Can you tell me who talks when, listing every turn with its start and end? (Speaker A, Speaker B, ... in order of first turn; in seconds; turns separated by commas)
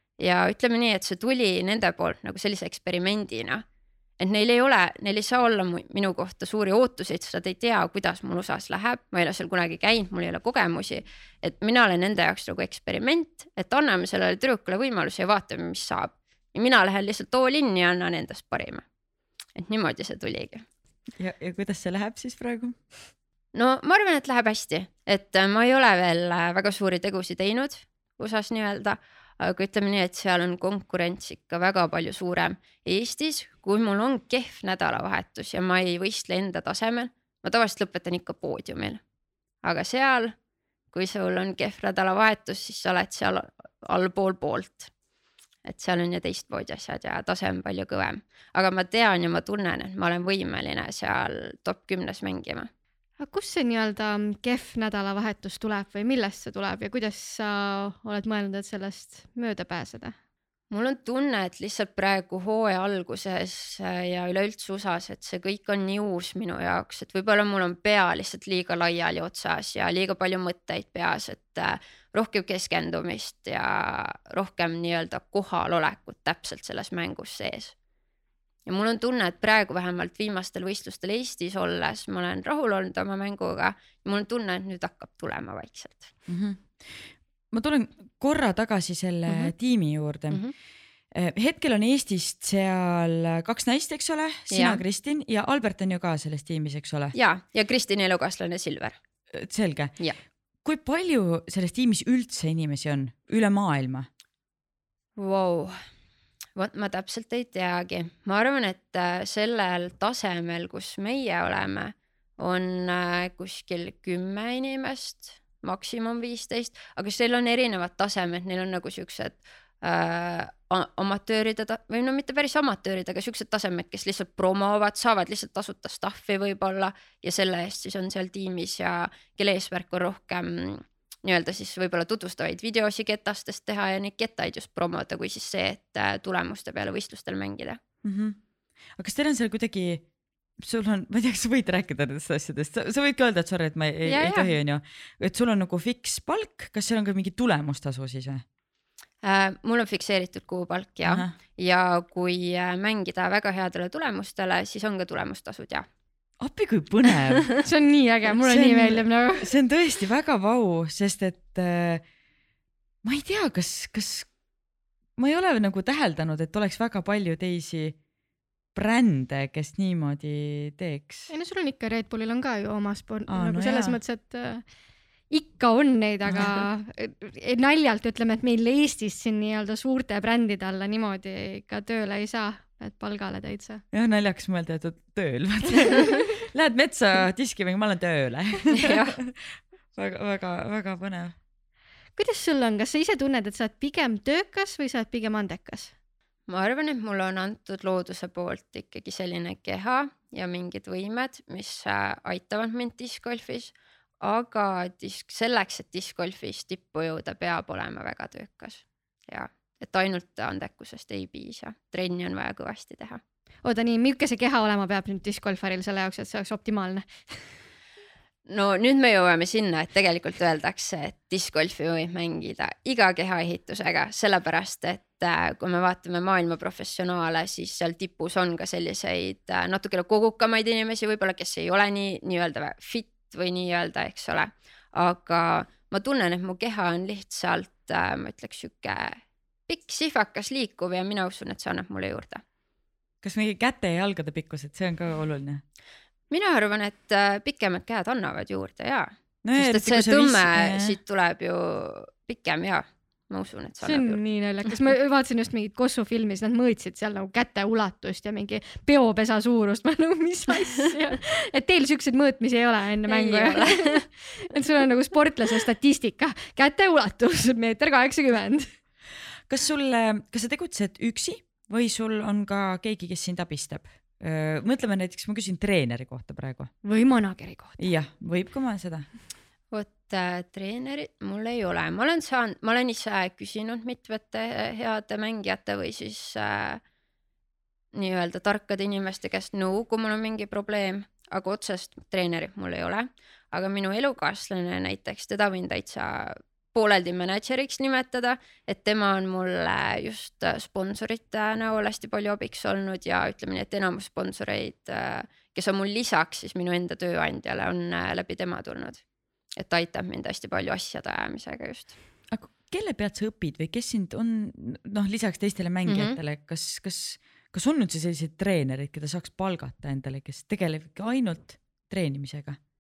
Speaker A: 0.2-3.6, Speaker A: 4.2-18.8, Speaker A: 19.6-20.6, Speaker B: 21.2-22.8, Speaker A: 23.5-39.0, Speaker A: 39.6-40.3, Speaker A: 40.9-44.9, Speaker A: 45.7-52.7, Speaker C: 53.2-60.1, Speaker A: 60.7-77.8, Speaker A: 78.7-86.1, Speaker B: 86.3-90.4, Speaker A: 89.3-89.5, Speaker B: 91.1-97.2, Speaker A: 94.5-94.8, Speaker A: 97.1-99.0, Speaker B: 99.3-99.9, Speaker B: 100.6-104.1, Speaker A: 105.2-105.8, Speaker A: 106.6-137.8, Speaker B: 138.0-138.4, Speaker B: 139.0-140.1, Speaker B: 140.6-148.4, Speaker A: 144.1-144.6, Speaker A: 149.2-155.9, Speaker B: 151.1-151.3, Speaker B: 156.4-157.6, Speaker C: 157.6-159.5, Speaker B: 158.3-162.1, Speaker B: 163.0-164.3, Speaker B: 165.2-168.0, Speaker B: 168.8-171.3, Speaker C: 171.3-174.7, Speaker B: 173.3-174.0, Speaker C: 175.3-183.8, Speaker B: 183.9-191.3, Speaker A: 188.8-189.2, Speaker C: 192.2-195.9, Speaker A: 196.5-213.2, Speaker C: 213.6-217.4, Speaker A: 218.5-242.4, Speaker B: 243.2-245.6, Speaker A: 246.3-254.2, Speaker B: 249.4-251.0, Speaker C: 253.8-268.7, Speaker A: 263.1-264.0, Speaker B: 269.5-276.7, Speaker C: 276.8-277.8, Speaker B: 277.8-279.1, Speaker A: 279.7-286.8, Speaker A: 287.9-309.0, Speaker A: 309.6-311.9, Speaker B: 312.3-322.6, Speaker A: 315.9-316.2